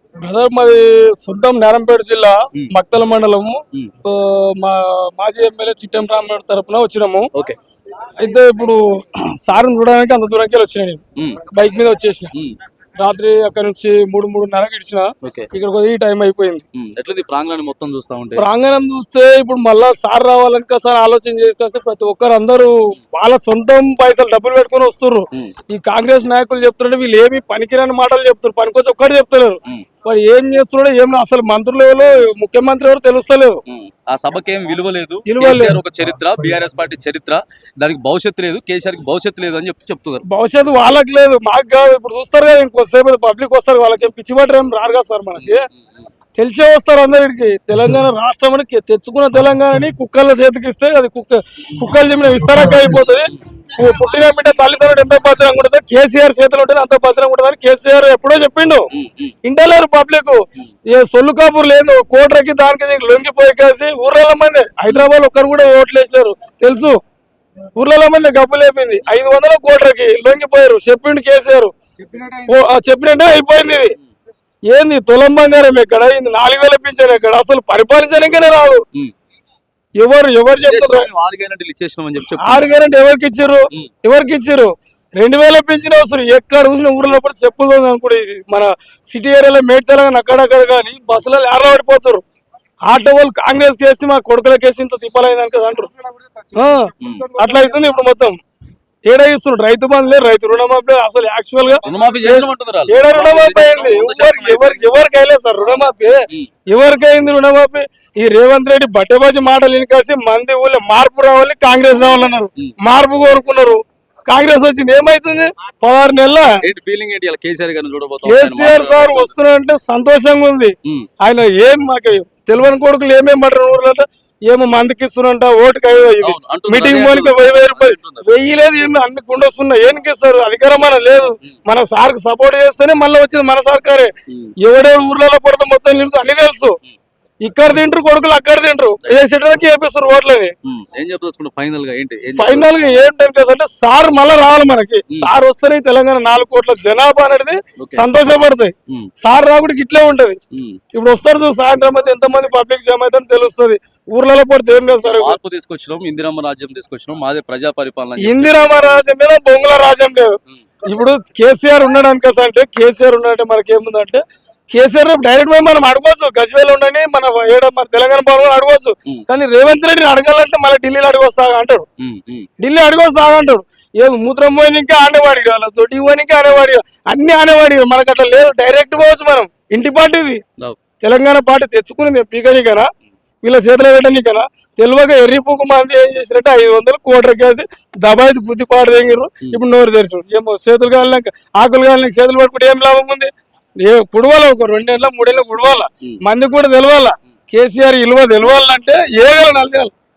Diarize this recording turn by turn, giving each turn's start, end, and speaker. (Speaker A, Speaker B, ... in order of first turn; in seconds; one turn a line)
Speaker A: 0.2-7.3
Speaker A: 8.2-12.3
Speaker B: 11.2-11.5
Speaker A: 13.0-16.6
Speaker B: 15.2-15.5
Speaker B: 16.7-18.4
Speaker A: 18.4-33.6
Speaker B: 33.7-40.2
Speaker A: 35.2-35.8
Speaker A: 40.2-45.6
Speaker B: 45.4-46.0
Speaker A: 46.4-58.9
Speaker B: 58.9-59.4
Speaker A: 59.4-67.0
Speaker A: 67.8-74.0
Speaker A: 74.7-78.8
Speaker A: 80.0-81.1
Speaker B: 80.6-82.7
Speaker A: 82.4-92.2
Speaker A: 92.8-95.9
Speaker A: 96.5-98.4
Speaker B: 97.0-97.3
Speaker A: 99.1-116.6
Speaker B: 101.8-104.9
Speaker B: 116.6-119.3
Speaker A: 118.2-134.1
Speaker B: 126.2-128.3
Speaker A: 134.6-136.8
Speaker A: 137.4-140.5
Speaker B: 140.6-142.7
Speaker A: 142.3-150.4
Speaker B: 147.8-148.0
Speaker B: 150.5-150.8
Speaker A: 150.9-155.4
Speaker B: 155.1-158.8
Speaker A: 158.2-171.8
Speaker B: 172.0-172.5
Speaker A: 172.6-180.4
Speaker A: 181.0-182.9
Speaker A: 183.4-199.9